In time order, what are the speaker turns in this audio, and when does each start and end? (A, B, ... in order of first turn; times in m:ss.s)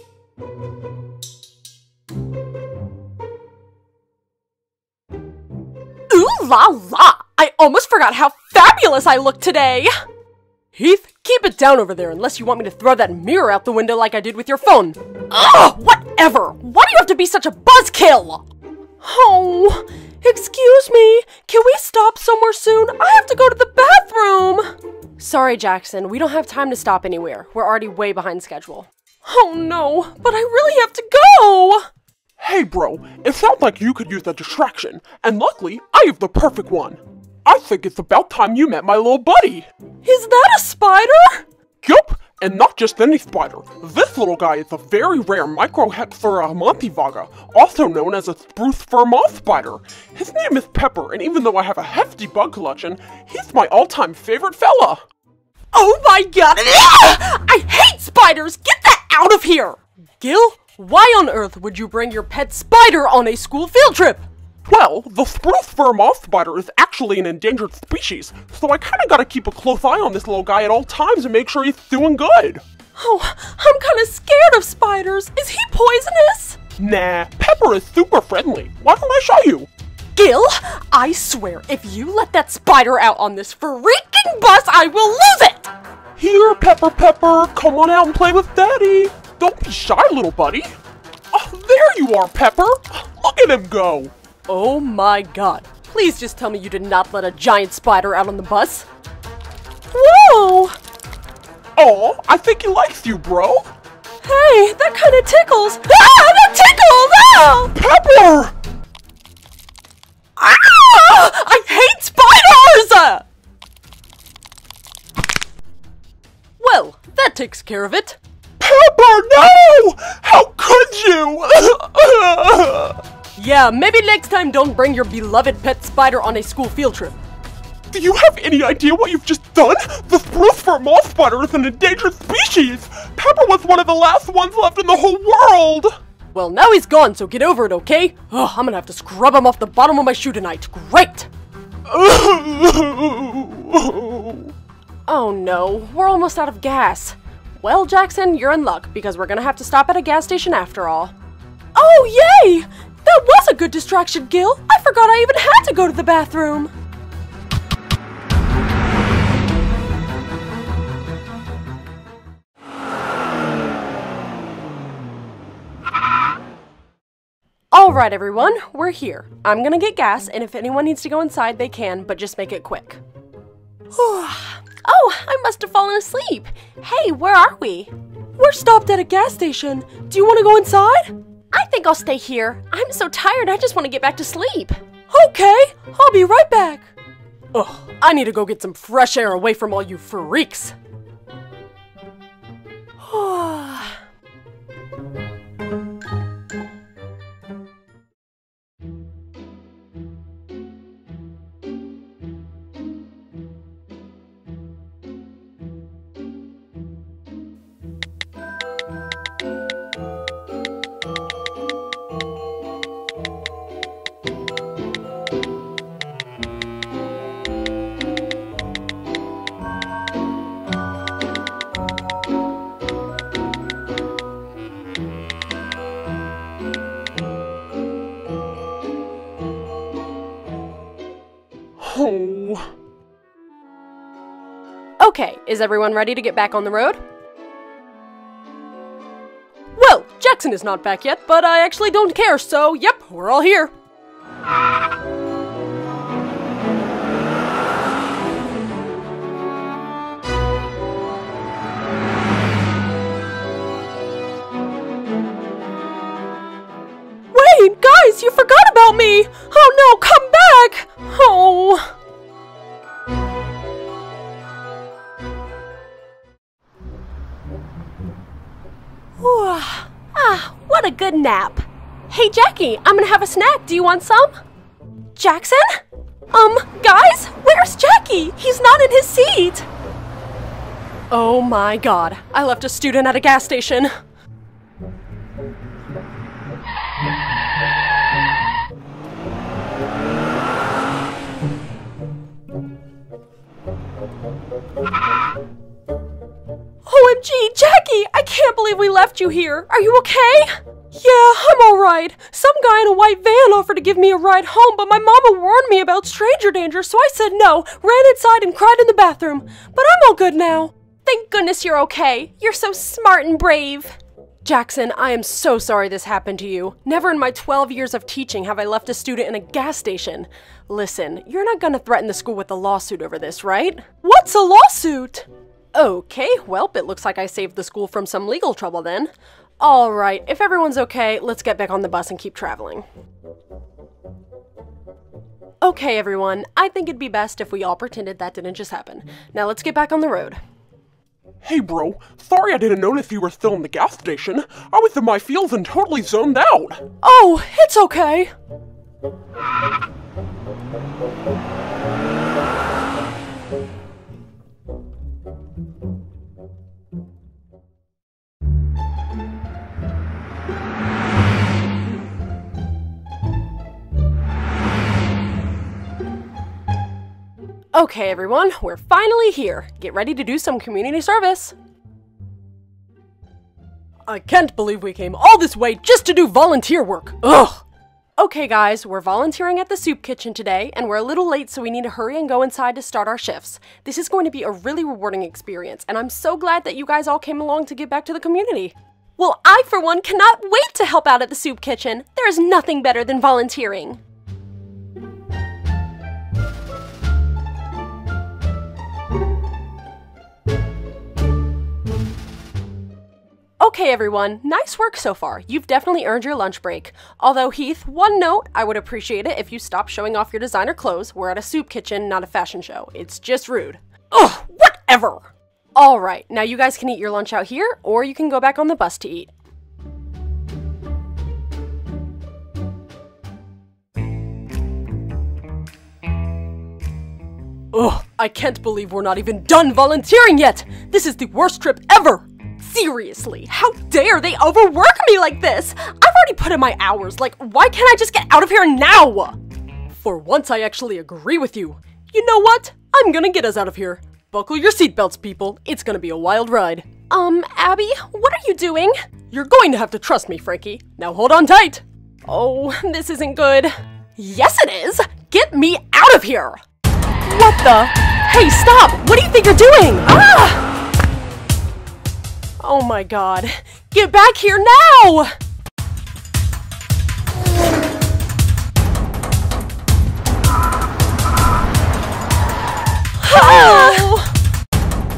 0:06.1-0:09.9 A
0:10.7-0:18.4 A
0:19.0-0:31.9 A
0:32.4-0:39.7 B
0:40.0-0:41.4 A
0:41.8-0:55.0 B
0:55.7-1:04.2 A
1:04.7-1:12.6 B
1:13.0-1:16.6 A
1:16.8-1:19.7 B
1:20.1-1:25.7 A
1:26.2-1:30.7 B
1:31.3-1:34.1 B
1:34.5-1:38.9 A
1:39.9-1:40.8 A
1:41.8-1:43.7 B
1:44.2-1:47.7 A
1:47.7-1:48.5 B
1:50.4-1:53.2 A
1:56.6-1:58.2 A
1:58.6-2:03.0 B
2:03.4-2:07.2 A
2:07.9-2:16.0 B
2:16.3-2:21.3 A
2:21.8-2:24.5 B
2:25.1-2:31.1 A
2:31.7-2:36.7 A
2:47.7-2:53.0 A
2:53.9-3:06.9 A
3:07.5-3:10.8 A
3:13.0-3:14.0 A
3:51.8-3:52.7 B
3:55.0-3:57.0 A
3:59.7-4:03.7 A
4:17.3-4:21.9 A
4:29.2-4:34.3 A
4:35.1-4:35.8 A
4:36.3-4:39.7 A
4:41.1-4:43.9 A
4:56.8-5:32.8 A
5:35.6-5:40.4 A
5:41.4-5:46.8 B
5:47.0-5:48.3 A
6:07.7-6:11.5 A
6:14.1-6:17.6 A
6:18.2-6:34.0 A
6:43.6-6:55.2 A
6:55.8-6:59.3 A
7:07.7-7:19.4 A
7:19.9-7:36.6 A
7:37.2-7:40.6 A
7:42.6-7:45.3 A
7:53.2-7:54.3 A